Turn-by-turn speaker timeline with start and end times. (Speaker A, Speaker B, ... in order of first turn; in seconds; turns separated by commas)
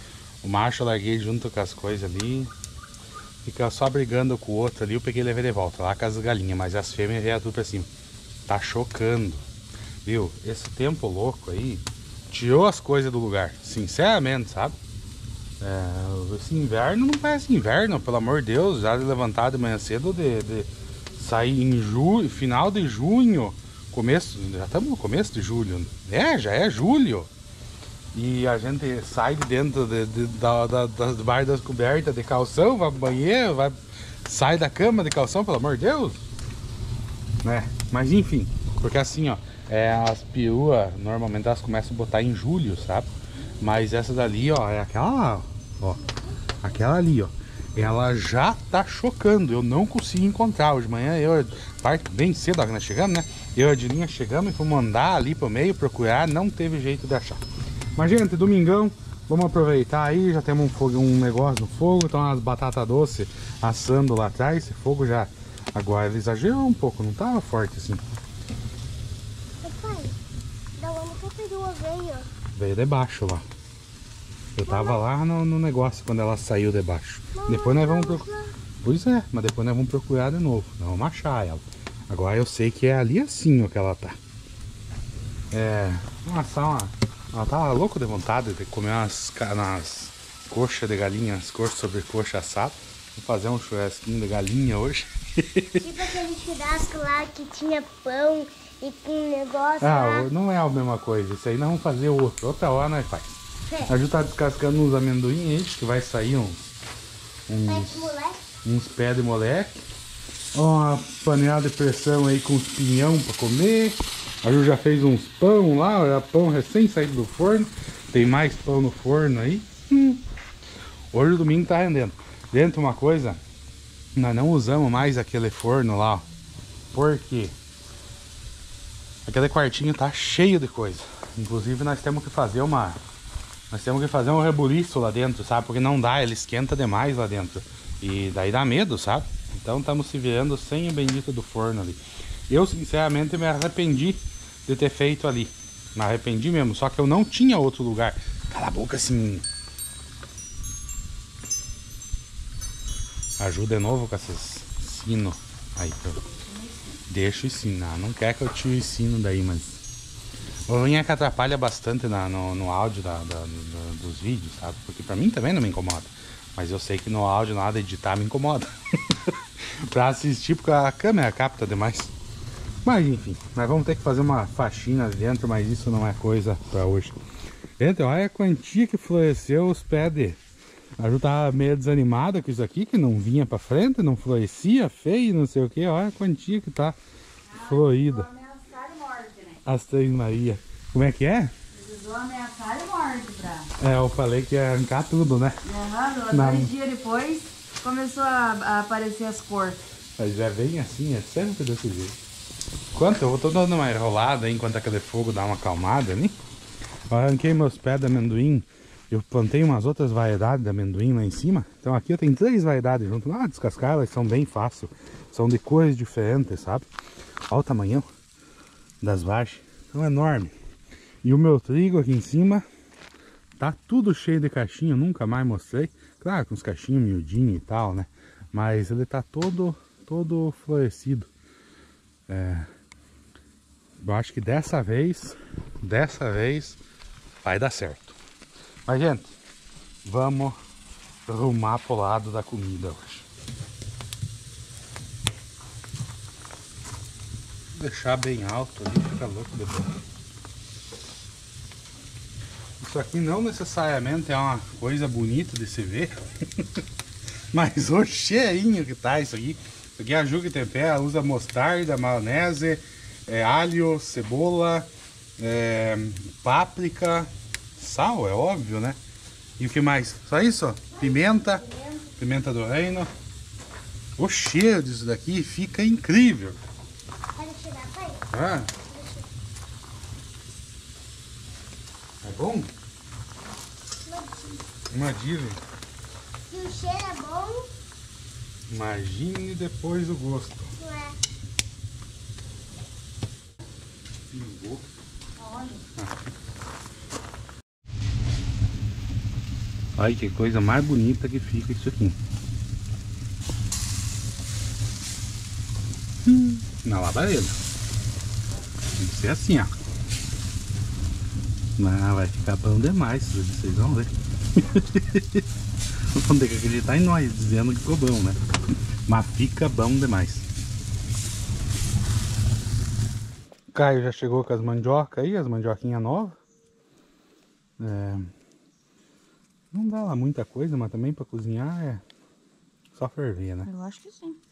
Speaker A: 0.4-2.5, Speaker A: 3.5-7.9, Speaker A: 8.5-9.4, Speaker A: 10.0-14.8, Speaker A: 15.6-27.3, Speaker A: 28.1-36.2, Speaker A: 37.4-57.4, Speaker A: 58.0-68.0, Speaker B: 69.6-70.2, Speaker B: 70.8-72.3, Speaker A: 72.5-73.5, Speaker A: 74.6-78.3, Speaker B: 74.6-75.0, Speaker B: 77.3-78.5, Speaker A: 78.8-84.2, Speaker A: 85.5-95.9, Speaker B: 95.8-100.3, Speaker A: 99.8-106.7, Speaker A: 107.5-109.8, Speaker B: 107.7-108.5, Speaker A: 110.5-120.2, Speaker A: 121.1-123.4, Speaker A: 124.2-126.3, Speaker A: 126.9-127.5, Speaker A: 129.3-133.0, Speaker A: 133.7-149.4, Speaker A: 153.4-156.2, Speaker C: 156.4-157.0, Speaker A: 157.1-159.8, Speaker A: 160.7-172.1, Speaker A: 172.8-177.2, Speaker A: 177.8-180.4, Speaker A: 181.0-187.0, Speaker C: 187.5-189.6, Speaker A: 187.6-188.3, Speaker A: 189.7-191.5, Speaker C: 191.7-193.7, Speaker A: 193.8-195.6, Speaker C: 195.6-199.8, Speaker A: 196.3-196.7, Speaker A: 200.2-202.2, Speaker A: 202.9-206.4, Speaker A: 207.1-216.9, Speaker A: 217.5-218.1, Speaker A: 219.0-220.5, Speaker A: 221.2-222.7, Speaker A: 223.6-231.3, Speaker A: 232.3-232.7, Speaker A: 234.0-236.8, Speaker A: 237.4-238.2, Speaker A: 238.9-239.3, Speaker A: 240.1-240.6, Speaker A: 241.3-243.3, Speaker A: 247.8-249.9, Speaker A: 252.8-256.6, Speaker A: 257.5-269.0, Speaker A: 269.6-273.1, Speaker B: 271.0-272.0, Speaker A: 274.2-276.6, Speaker B: 277.4-278.2, Speaker A: 278.3-278.7, Speaker B: 278.9-279.3, Speaker A: 282.2-282.7, Speaker B: 284.1-284.6, Speaker A: 284.9-285.6, Speaker B: 286.5-287.7, Speaker A: 288.7-290.7, Speaker B: 290.8-291.2, Speaker A: 294.3-294.9, Speaker C: 295.4-295.8, Speaker A: 296.0-296.2, Speaker A: 300.0-302.2, Speaker A: 306.2-307.6, Speaker A: 309.0-309.7, Speaker A: 311.8-315.4, Speaker A: 316.1-318.4, Speaker A: 319.1-320.5, Speaker A: 323.7-326.4, Speaker A: 327.8-328.3, Speaker A: 329.7-332.0, Speaker A: 332.9-333.7, Speaker C: 333.6-334.4